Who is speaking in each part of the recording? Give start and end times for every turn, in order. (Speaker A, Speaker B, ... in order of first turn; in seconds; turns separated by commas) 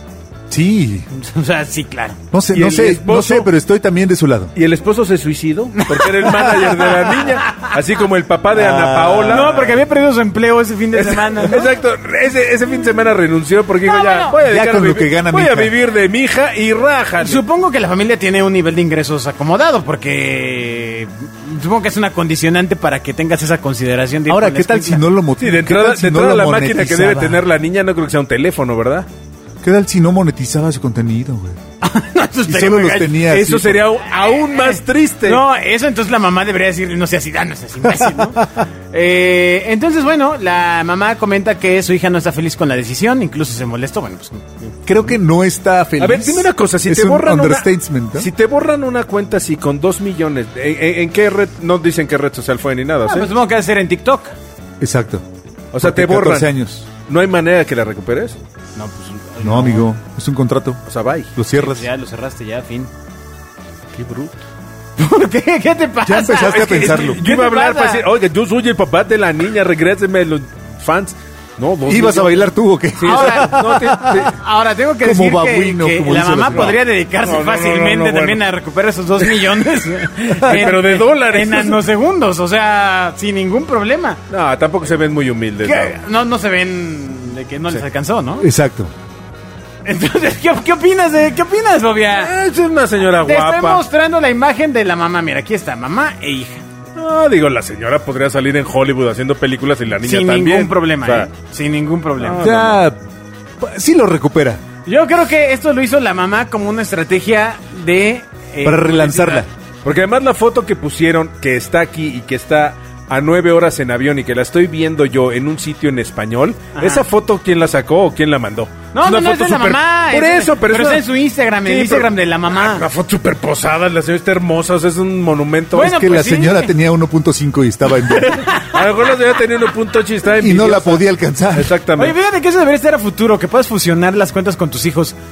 Speaker A: 0.5-1.1, Speaker B: 1.1-2.2, Speaker A: 2.3-4.5, Speaker C: 2.5-3.5, Speaker C: 4.5-9.8, Speaker B: 5.8-7.7, Speaker A: 8.5-9.5, Speaker B: 9.3-11.7, Speaker C: 10.9-17.4, Speaker B: 13.8-14.4, Speaker A: 14.4-15.7, Speaker B: 17.2-25.0, Speaker A: 24.3-27.4, Speaker C: 25.4-29.1, Speaker A: 29.6-31.6, Speaker B: 31.8-33.3, Speaker A: 32.5-33.8, Speaker C: 33.2-35.4, Speaker B: 34.5-44.8, Speaker A: 38.0-38.5, Speaker A: 44.9-48.3, Speaker C: 46.0-53.3, Speaker B: 53.1-54.3, Speaker A: 54.8-55.2, Speaker C: 55.7-58.4, Speaker A: 55.8-56.9, Speaker B: 58.8-59.9, Speaker A: 59.4-60.8, Speaker C: 60.9-61.3, Speaker A: 61.4-61.9, Speaker B: 61.5-62.9, Speaker C: 63.9-64.4, Speaker B: 65.0-68.1, Speaker A: 66.0-67.2, Speaker C: 66.4-74.4, Speaker A: 71.9-74.2, Speaker B: 73.0-84.2, Speaker A: 75.0-76.8, Speaker C: 76.5-78.4, Speaker A: 80.4-80.7, Speaker C: 80.4-81.8, Speaker C: 84.3-86.0, Speaker B: 85.6-88.5, Speaker A: 88.4-88.9, Speaker B: 89.8-92.3, Speaker C: 92.1-93.8, Speaker B: 93.2-96.7, Speaker C: 97.0-101.3, Speaker B: 100.0-102.4, Speaker C: 102.2-102.8, Speaker A: 102.4-103.0, Speaker A: 103.6-104.6, Speaker B: 104.9-109.5, Speaker A: 108.6-109.5, Speaker C: 109.8-121.1, Speaker B: 116.8-117.0, Speaker B: 118.9-122.9, Speaker C: 121.6-125.9, Speaker B: 125.8-126.7, Speaker A: 125.8-128.5, Speaker C: 128.1-132.2, Speaker B: 128.3-128.8, Speaker A: 130.4-131.7, Speaker B: 132.0-135.2